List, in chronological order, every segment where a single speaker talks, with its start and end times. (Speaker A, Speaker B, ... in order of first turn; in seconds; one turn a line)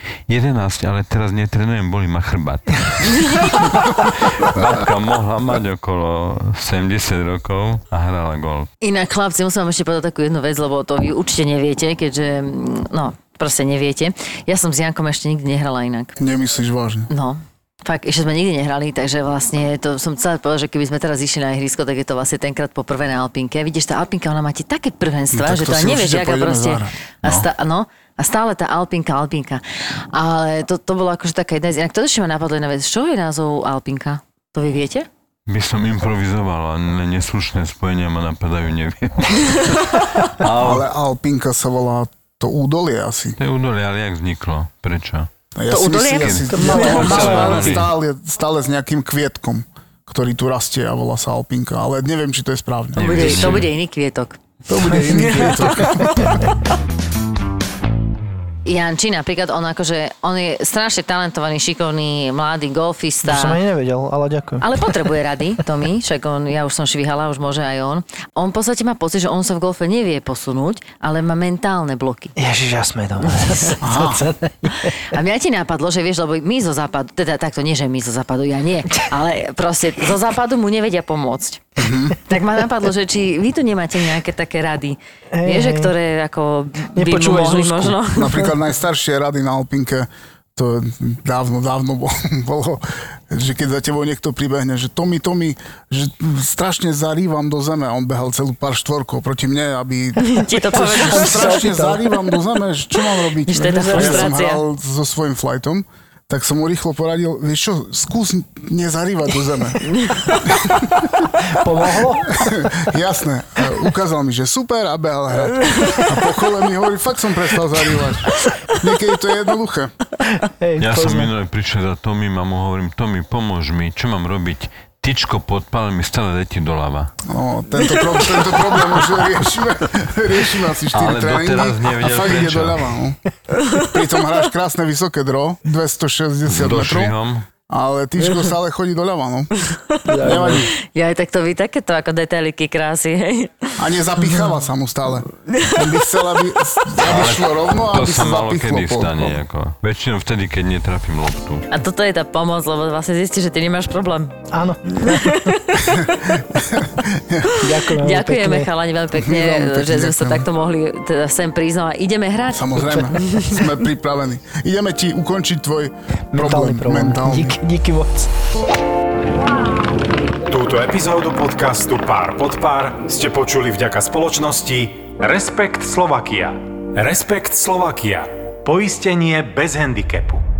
Speaker A: 0.3-8.7
Speaker B: 3.3-3.6
Speaker B: 8.8-16.1
Speaker C: 16.2-17.1
Speaker B: 17.1-29.6
Speaker C: 25.3-26.9
Speaker B: 30.1-35.1
Speaker A: 35.5-40.9
Speaker C: 40.5-43.4
Speaker A: 43.4-45.3
Speaker C: 45.5-53.7
Speaker B: 45.7-47.8
Speaker A: 46.1-47.9
Speaker D: 46.5-47.7
Speaker A: 53.0-53.7
Speaker B: 53.0-54.4
Speaker C: 54.7-56.3
Speaker D: 54.8-56.1
Speaker B: 55.1-56.5
Speaker B: 58.6-63.6
Speaker D: 63.2-65.0
Speaker B: 64.6-72.3
Speaker D: 72.4-75.0
Speaker C: 73.8-74.3
Speaker B: 75.0-81.6
Speaker C: 81.8-82.2
Speaker B: 82.2-88.5
Speaker D: 85.3-85.9
Speaker D: 86.9-88.0
Speaker C: 88.1-111.0
Speaker B: 100.2-101.7
Speaker D: 100.7-102.1
Speaker B: 103.5-104.6
Speaker D: 103.8-104.3
Speaker B: 109.8-110.8
Speaker D: 111.4-112.4
Speaker C: 112.2-119.9
Speaker B: 115.6-116.1
Speaker D: 120.4-121.3
Speaker A: 120.8-127.1
Speaker C: 127.2-133.2
Speaker A: 130.9-132.9
Speaker C: 133.7-137.1
Speaker A: 136.5-137.4
Speaker C: 137.7-139.5
Speaker B: 139.9-143.7
Speaker D: 140.1-140.7
Speaker C: 140.2-140.7
Speaker C: 143.8-149.4
Speaker A: 147.0-151.7
Speaker B: 151.7-154.4
Speaker D: 154.5-155.5
Speaker B: 155.0-155.8
Speaker C: 155.8-157.6
Speaker D: 157.5-158.7
Speaker B: 158.0-163.7
Speaker C: 159.1-160.5
Speaker C: 162.5-167.6
Speaker D: 166.3-168.3
Speaker E: 170.5-180.4